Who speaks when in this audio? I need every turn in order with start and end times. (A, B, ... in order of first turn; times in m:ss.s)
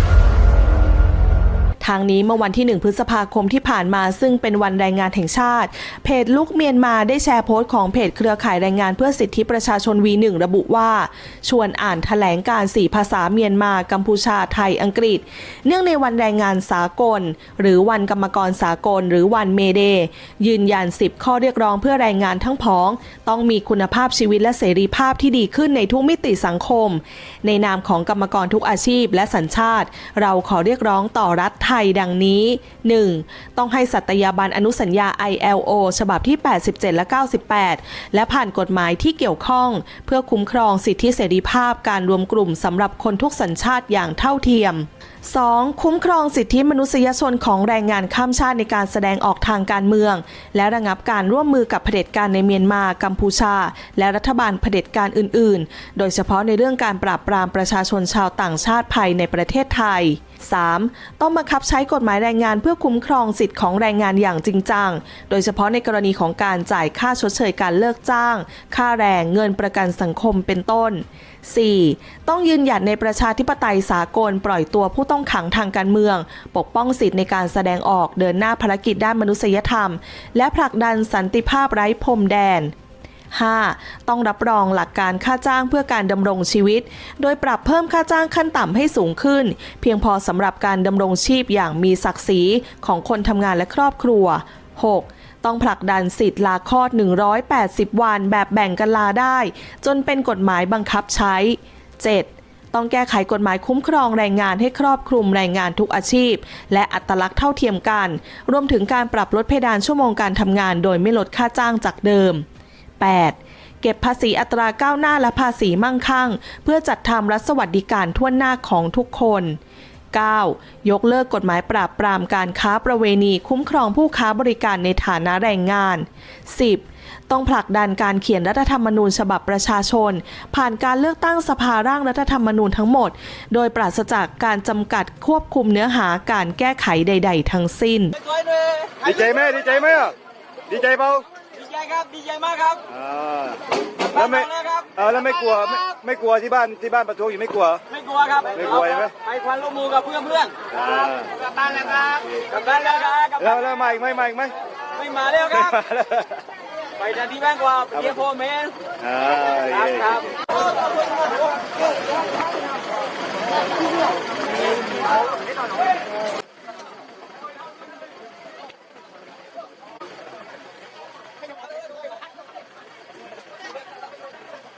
0:01.8-1:22.7 A
1:23.3-1:52.4 A
1:53.0-1:59.6 A
2:00.1-2:18.2 A
2:18.9-2:20.0 B
2:19.1-2:20.1 C
2:20.7-2:21.2 C
2:21.6-2:22.9 B
2:23.3-2:23.6 C
2:24.1-2:26.0 B
2:24.2-2:27.8 C
2:27.9-2:34.3 B
2:33.5-2:34.5 C
2:35.0-2:36.2 B
2:37.0-2:40.2 B
2:39.0-2:39.9 C